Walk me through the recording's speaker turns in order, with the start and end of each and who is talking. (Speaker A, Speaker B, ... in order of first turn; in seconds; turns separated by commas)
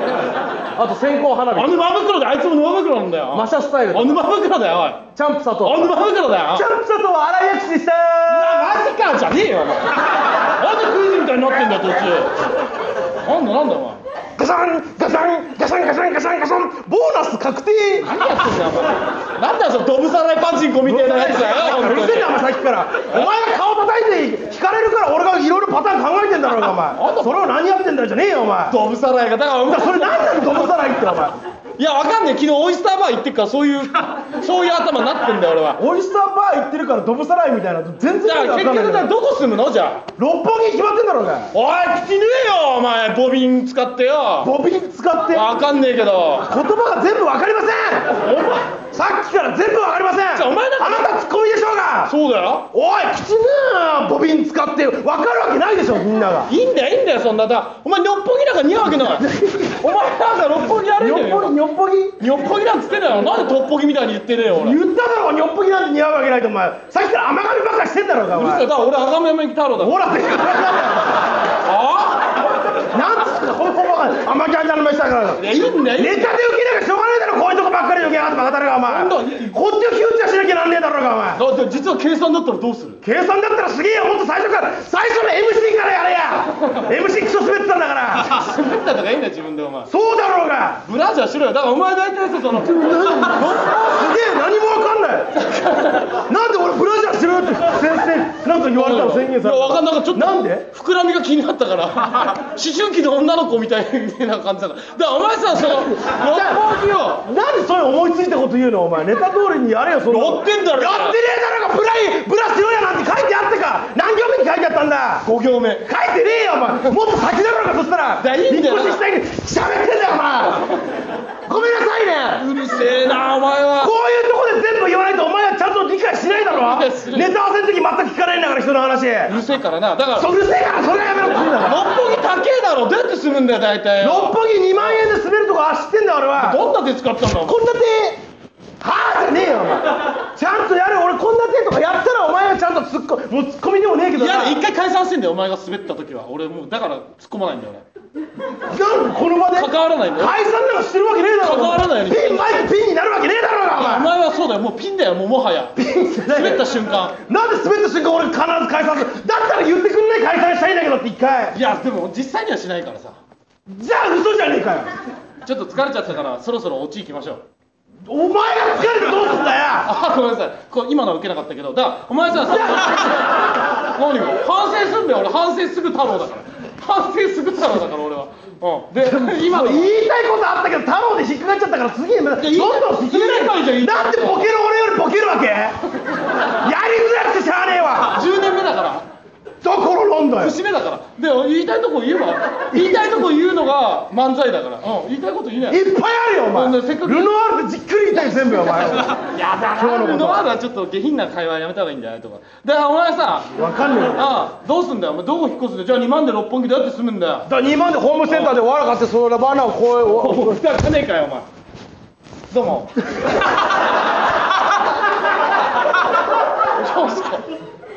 Speaker A: 0.8-1.9, Speaker B: 1.5-5.1, Speaker A: 3.3-4.2, Speaker A: 5.2-6.0, Speaker B: 5.6-6.7, Speaker A: 6.5-8.8, Speaker B: 8.3-12.3, Speaker B: 13.2-14.0, Speaker A: 14.4-18.1, Speaker B: 18.0-22.4, Speaker A: 20.8-28.8, Speaker B: 26.9-27.5, Speaker B: 28.7-30.8, Speaker A: 29.6-31.4, Speaker B: 31.8-35.8, Speaker A: 35.8-39.1, Speaker B: 38.2-40.1, Speaker A: 40.2-41.5, Speaker B: 41.5-44.5, Speaker A: 44.4-45.5, Speaker B: 45.3-46.5, Speaker A: 46.5-48.2, Speaker B: 48.1-48.7, Speaker A: 48.9-52.1, Speaker B: 50.3-51.1, Speaker B: 52.1-52.7, Speaker A: 52.7-56.5, Speaker B: 56.5-61.6, Speaker A: 58.9-60.1, Speaker A: 61.0-62.2, Speaker B: 62.2-64.8, Speaker A: 64.5-68.7, Speaker B: 68.3-70.0, Speaker A: 69.8-71.3, Speaker B: 71.6-72.5, Speaker A: 72.8-81.4, Speaker B: 75.4-76.4, Speaker B: 78.8-79.6, Speaker B: 81.4-83.0, Speaker A: 83.0-88.5, Speaker B: 88.2-89.9, Speaker A: 89.9-90.8, Speaker B: 90.8-93.8, Speaker A: 92.5-95.3, Speaker B: 95.4-96.2, Speaker A: 96.1-100.7, Speaker B: 98.8-107.2, Speaker A: 105.5-106.7, Speaker A: 107.2-115.3, Speaker B: 110.1-111.2, Speaker B: 115.2-115.9, Speaker A: 115.8-120.8, Speaker B: 118.2-119.0, Speaker A: 121.5-122.5, Speaker B: 122.4-124.0, Speaker A: 123.8-129.4, Speaker B: 126.4-127.3, Speaker B: 129.3-130.3, Speaker A: 130.2-131.9, Speaker B: 131.6-135.1, Speaker A: 134.0-136.7, Speaker B: 136.3-137.6, Speaker A: 137.4-138.2, Speaker A: 138.8-144.6, Speaker B: 144.2-147.8, Speaker A: 148.7-154.1, Speaker B: 149.6-150.4, Speaker B: 151.4-152.7, Speaker B: 153.8-157.2, Speaker A: 155.8-161.6, Speaker B: 161.5-163.2, Speaker A: 163.7-164.9, Speaker B: 165.4-167.4, Speaker A: 168.1-169.9, Speaker B: 169.8-179.9, Speaker A: 172.5-173.2, Speaker A: 179.0-185.8, Speaker B: 182.4-184.5, Speaker A: 186.6-188.2, Speaker B: 188.0-189.0, Speaker A: 189.6-190.6, Speaker B: 190.4-195.8, Speaker A: 195.7-199.2, Speaker B: 196.5-197.3, Speaker B: 198.6-203.5, Speaker A: 199.7-200.5, Speaker A: 203.5-204.4, Speaker B: 204.1-207.5, Speaker A: 207.5-210.7, Speaker B: 208.3-208.6, Speaker B: 210.1-211.5, Speaker B: 212.5-213.0, Speaker B: 216.7-217.5